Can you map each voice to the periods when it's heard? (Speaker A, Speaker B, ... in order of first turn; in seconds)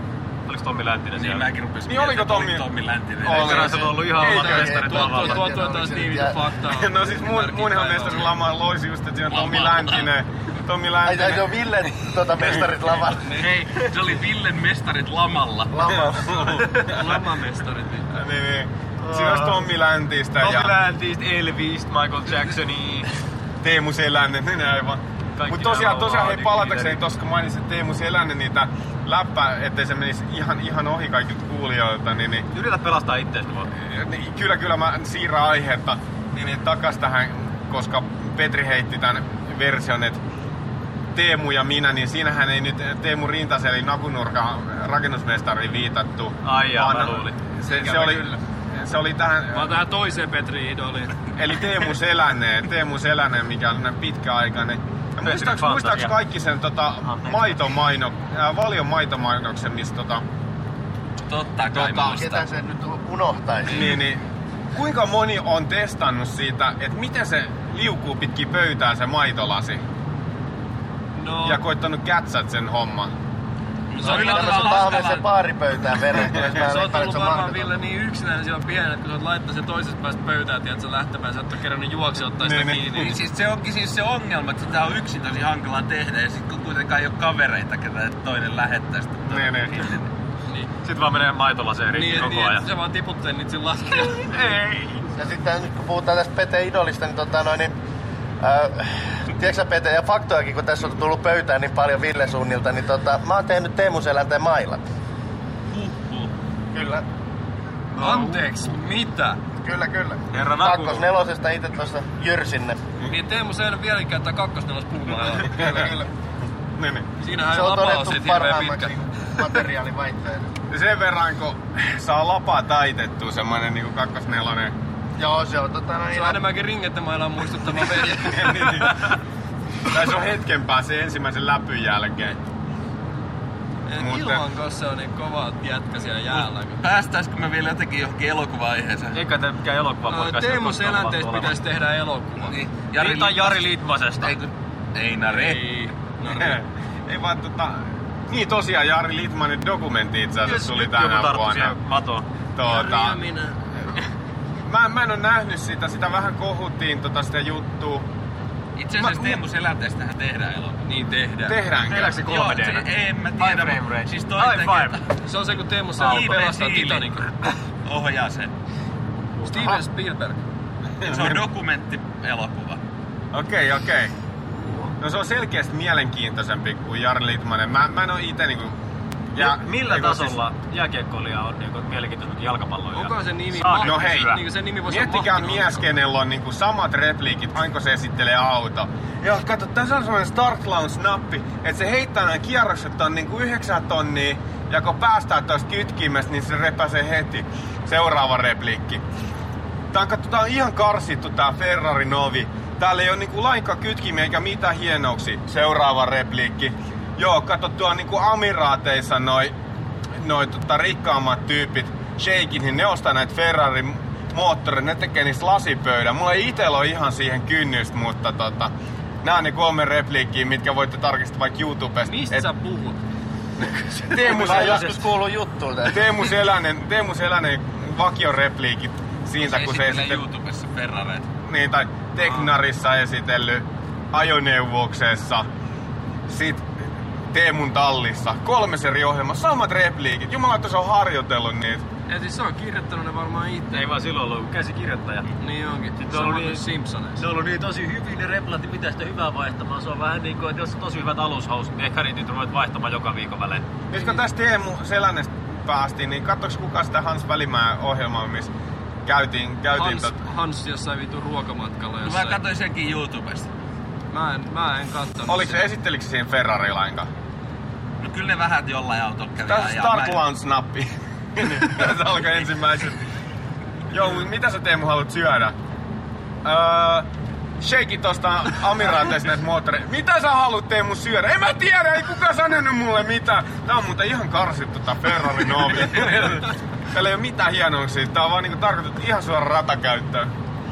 Speaker A: 0.5-1.5, 3.2-5.5, 19.0-19.7, 20.4-23.1, 25.4-27.0, 32.5-33.7, 46.4-47.4, 55.2-56.2, 57.0-57.6, 90.8-92.7, 108.0-108.4, 110.3-111.1, 139.1-141.6, 142.9-144.3, 150.4-152.2, 161.9-165.0, 166.0-166.4, 179.3-184.4, 224.4-224.9, 243.7-245.3, 246.0-246.6, 247.2-253.7
Speaker B: 1.1-4.0, 9.3-10.1, 13.4-15.9, 61.2-62.5, 73.9-75.2, 83.0-90.1, 105.7-106.3, 136.3-139.2, 142.4-143.6, 144.2-145.6, 158.8-161.2, 162.1-165.1, 166.0-168.5, 171.0-172.8, 229.4-231.2, 262.0-263.5, 268.0-270.2
Speaker C: 1.8-2.6, 3.2-4.9, 6.7-11.6, 16.1-17.1, 18.1-20.8, 23.6-32.5, 33.7-40.2, 41.1-49.7, 51.3-60.2, 61.7-62.2, 63.7-69.8, 71.4-73.1, 82.4-83.0, 89.3-89.8, 115.5-115.9, 116.7-117.1, 120.7-124.7, 128.2-129.2, 129.8-132.4, 133.9-134.4, 146.3-151.7, 152.6-153.2, 154.7-158.0, 159.0-159.4, 161.4-162.2, 171.0-171.4, 173.3-174.1, 175.0-178.8, 179.3-180.4, 183.8-199.0, 199.9-209.5, 210.2-218.7, 219.2-222.5, 224.1-225.0, 225.9-230.2, 231.4-235.5, 236.3-236.7, 237.3-241.8, 253.9-258.5, 259.0-260.1, 265.3-267.1, 269.4-273.0, 273.9-275.5, 276.4-277.1, 277.6-290.3
Speaker D: 4.2-8.4, 13.2-13.5, 16.8-18.1, 47.7-48.3, 49.5-51.1, 71.1-71.6, 74.0-75.2, 76.3-83.2, 91.9-94.5, 108.0-109.4, 113.1-116.0, 117.2-118.9, 126.1-128.9, 133.9-136.8, 140.1-142.6, 145.3-146.6, 152.6-153.6, 160.8-161.6, 165.2-167.3, 169.4-170.4, 182.9-185.9, 222.0-223.0, 223.6-224.6, 232.2-232.5, 242.1-243.8, 245.4-247.2, 253.9-254.2, 259.7-262.4, 264.1-265.6
Speaker E: 4.3-6.4, 11.0-13.3, 15.7-16.6, 62.0-64.0, 74.0-77.7, 95.1-97.7, 98.4-104.8, 106.7-107.0, 109.6-112.8, 117.5-120.5, 125.2-126.4, 224.1-226.2